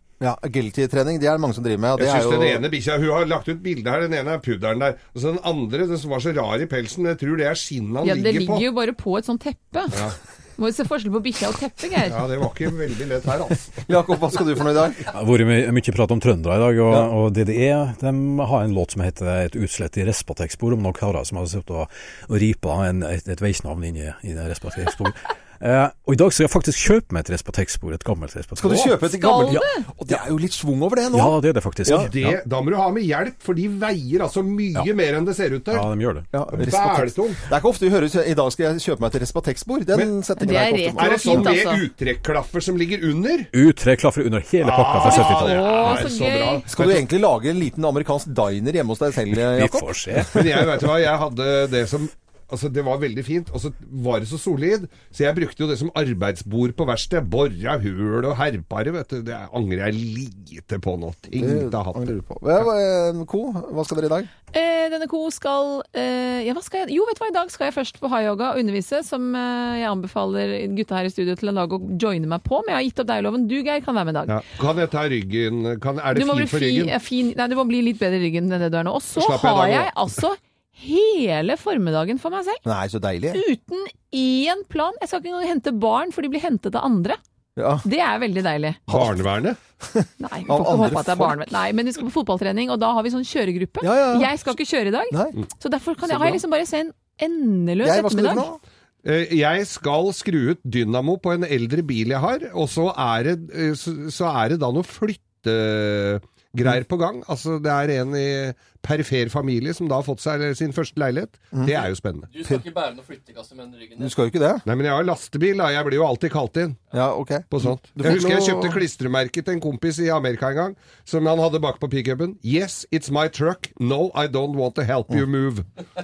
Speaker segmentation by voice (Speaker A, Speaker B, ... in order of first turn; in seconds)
Speaker A: 0.2-2.6, 13.9-15.1, 28.6-31.3, 31.9-32.1, 36.3-41.5, 46.7-50.7, 61.4-64.3, 82.6-83.4, 87.6-87.9, 88.9-89.2, 89.8-91.5, 93.8-94.4, 95.1-95.4, 96.1-96.4, 97.8-98.6, 111.5-111.8, 112.5-112.7, 114.0-114.6, 116.9-118.8
Speaker B: 2.0-8.7, 9.9-10.2, 12.1-13.8, 31.9-35.9, 36.5-37.4, 41.0-43.5, 44.6-47.1, 50.3-62.1, 74.3-76.9, 79.2-79.9, 88.9-89.6, 99.0-112.3, 114.6-116.8, 117.5-125.7
Speaker C: 8.0-10.0, 10.6-12.2, 29.1-29.9, 40.4-41.8, 45.0-46.6, 64.5-74.3, 76.1-82.6, 83.3-87.2, 87.8-88.8, 90.2-98.5
Speaker D: 15.1-29.6, 31.1-32.4, 35.7-36.7, 43.5-45.9, 49.4-50.4
Speaker E: 112.3-114.2